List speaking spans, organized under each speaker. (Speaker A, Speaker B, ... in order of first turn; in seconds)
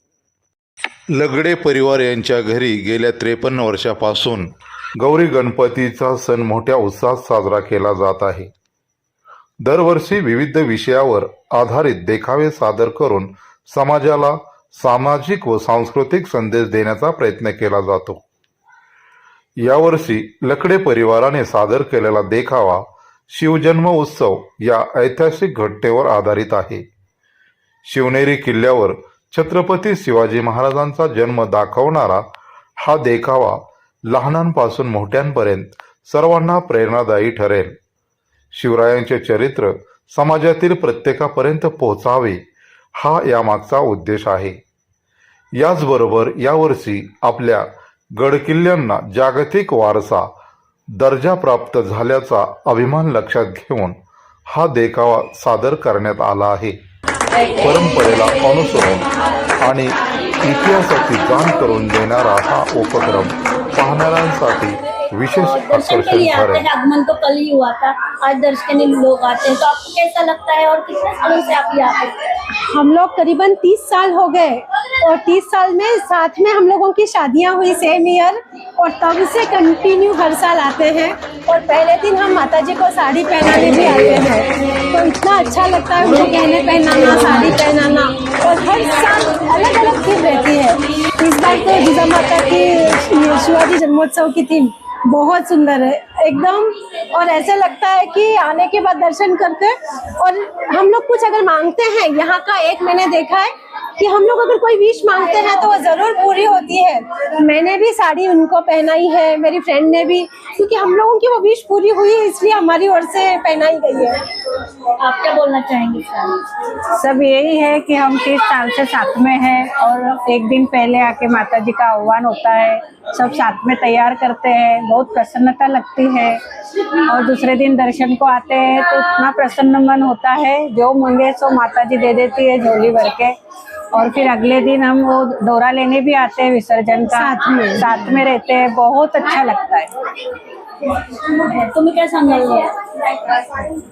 Speaker A: 1.1-8.5, 9.6-18.2, 19.6-26.8, 27.8-32.2, 32.8-37.7, 38.5-42.4, 43.0-44.6, 45.6-50.3, 51.0-54.0, 54.5-56.8, 57.6-59.1, 59.6-66.7
Speaker B: 65.3-72.3, 115.0-116.4, 141.1-143.7
Speaker C: 72.6-114.2, 137.1-138.2
Speaker D: 117.0-126.4, 127.0-133.3, 133.9-139.9